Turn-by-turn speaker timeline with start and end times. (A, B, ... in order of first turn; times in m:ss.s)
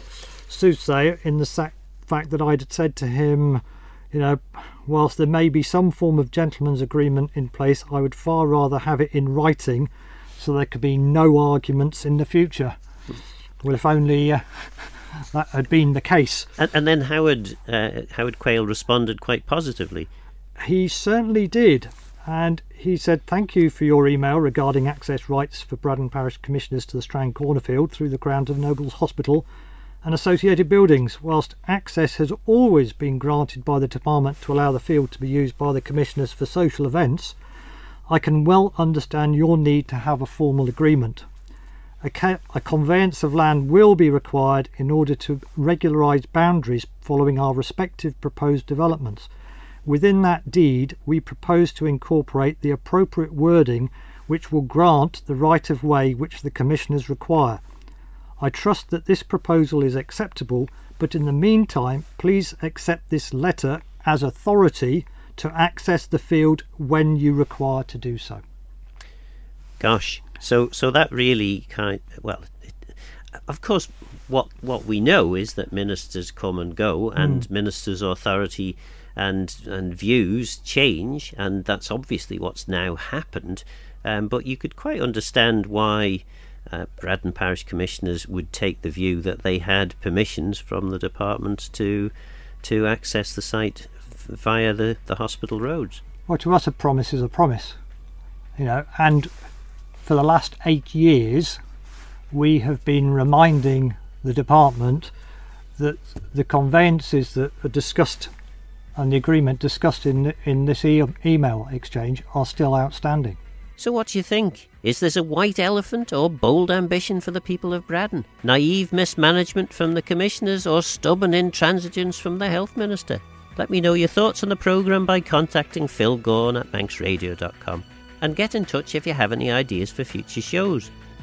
0:00.5-0:12.8 A
0:13.6-0:16.5 A
0:16.6-0:20.1 B
0:20.6-0:29.4 A
0:30.0-0:37.4 A
0:38.1-0:41.3 A
0:42.0-0:49.3 A
0:49.8-0:57.6 A
0:58.4-1:08.4 A
1:09.8-1:36.0 B
1:17.2-1:17.5 A
1:36.3-1:37.8 A
1:38.6-1:39.3 A
1:40.0-1:41.6 A
1:42.3-1:45.1 A
1:45.8-1:48.3 A
1:49.0-1:53.4 A
1:53.8-2:10.9 B